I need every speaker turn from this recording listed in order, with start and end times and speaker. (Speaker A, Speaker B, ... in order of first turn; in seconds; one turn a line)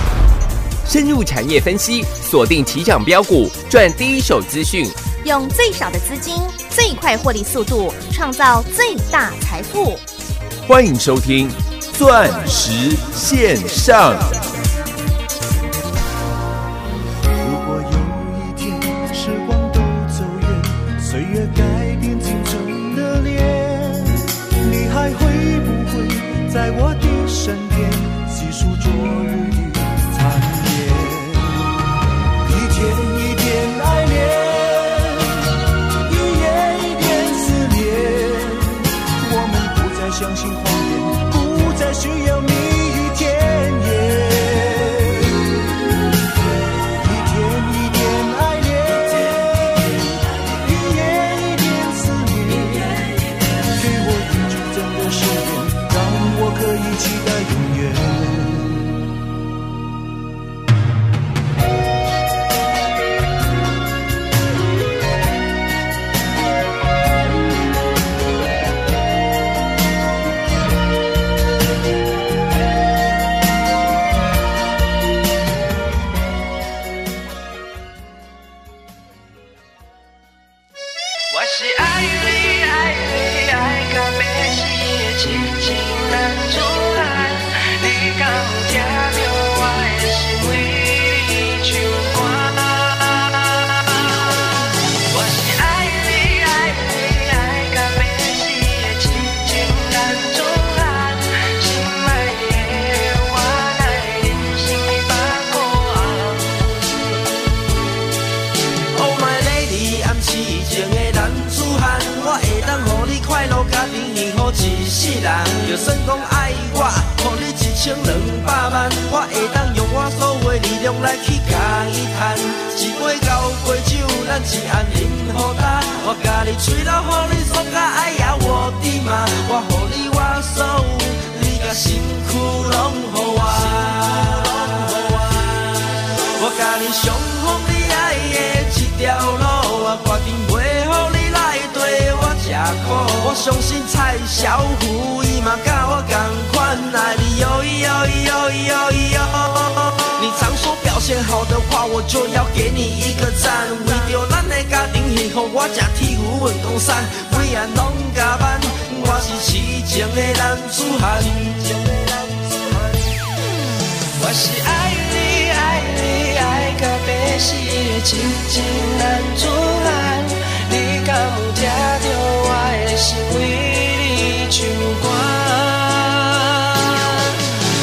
Speaker A: 0.8-5.0
Speaker B: 5.1-10.0
Speaker A: 10.7-14.3
Speaker C: 17.4-31.7
Speaker C: 32.5-35.3
Speaker C: 36.0-45.5
Speaker C: 47.0-53.0
Speaker C: 53.7-58.9
Speaker D: 81.3-94.3
Speaker D: 95.1-107.2
Speaker E: 108.9-162.9
Speaker D: 164.2-177.4